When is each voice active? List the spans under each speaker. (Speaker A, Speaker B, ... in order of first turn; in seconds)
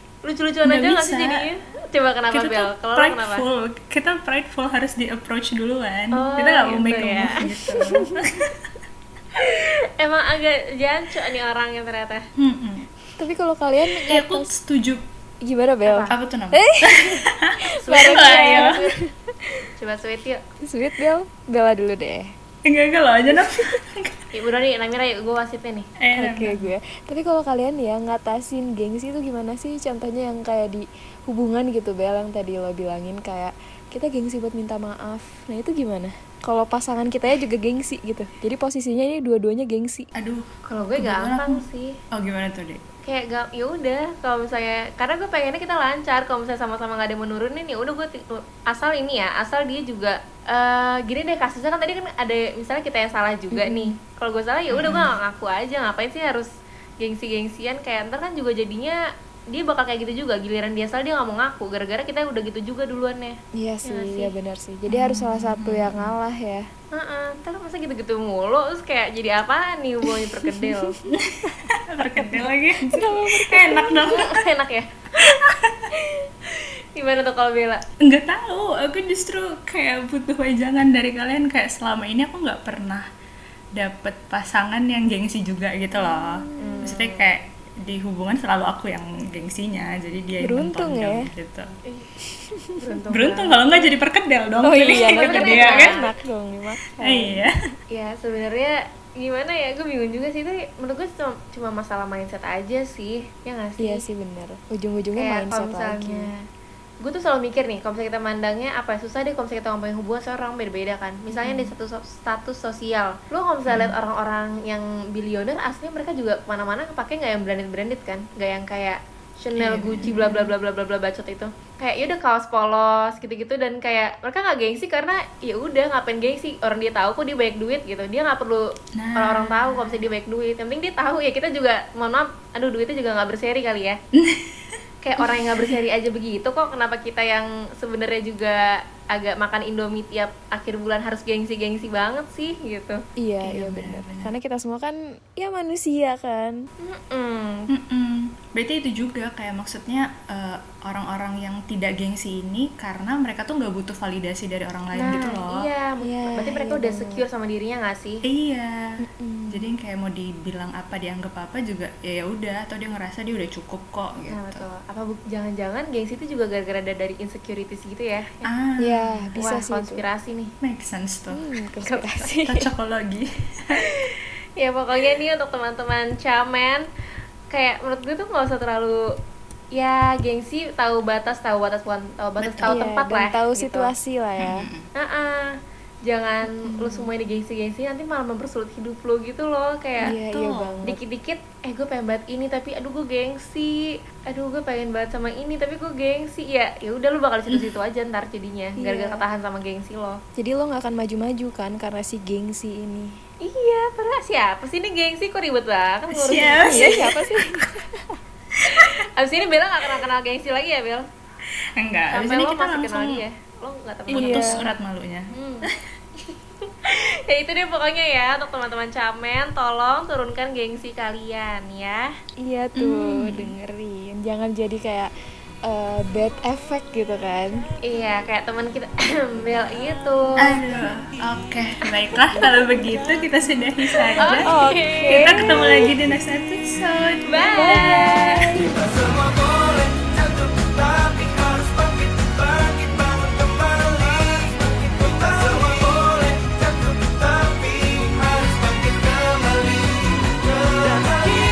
Speaker A: 0.2-3.4, 6.2-7.7, 9.4-12.2, 15.8-16.1, 17.8-18.9, 19.8-20.4, 24.3-25.9, 40.7-41.9, 43.0-56.5, 57.0-59.0, 59.5-64.3, 66.9-70.9, 74.1-77.8, 86.6-87.4, 91.9-92.1, 92.8-93.7, 94.8-96.1, 97.9-104.0, 105.2-106.3, 107.0-128.6, 129.2-134.0, 135.0-143.0, 146.8-147.7, 154.9-158.2, 164.3-168.5, 169.4-170.5, 171.8-172.3, 173.9-176.8, 177.5-179.0, 179.7-183.9, 185.0-185.5, 186.1-190.1, 190.8-200.2, 203.4-207.2, 208.6-211.0, 212.1-214.7, 215.3-215.7, 216.8-222.1, 227.8-230.6, 234.2-235.2, 237.3-238.1, 245.3-246.0
Speaker B: 0.6-1.5, 2.3-8.6, 12.4-12.9, 13.9-15.0, 16.1-18.8, 22.6-24.3, 26.0-26.7, 40.1-40.4, 41.0-42.8, 54.7-55.2, 64.9-66.2, 71.1-74.4, 78.0-83.0, 83.8-91.7, 93.1-96.0, 97.0-97.5, 113.7-114.0, 119.5-120.3, 129.0-130.1, 134.1-134.8, 143.4-144.3, 147.7-155.7, 158.2-158.9, 159.5-164.6, 168.4-169.3, 170.6-171.4, 172.4-173.8, 182.4-182.8, 184.4-184.9, 190.2-190.8, 206.1-207.2, 208.7-208.9, 211.8-213.2, 214.1-215.8, 222.8-223.4, 230.4-234.5, 235.0-238.5
Speaker C: 7.6-8.2, 13.2-14.5, 15.4-19.2, 20.6-22.3, 23.4-23.6, 26.1-40.1, 53.5-53.9, 63.6-66.7, 70.4-71.1, 72.1-74.3, 85.9-87.0, 90.4-91.3, 92.3-93.0, 94.6-97.5, 103.8-106.3, 111.3-111.7, 120.0-120.5, 143.2-146.6, 156.0-157.2, 159.0-159.7, 168.8-170.0, 171.3-172.7, 182.7-184.7, 186.5-187.1, 190.0-191.0, 198.8-199.2, 200.4-203.2, 206.4-208.0, 214.1-214.7, 222.4-225.1, 225.7-227.6, 234.4-235.9, 237.6-238.8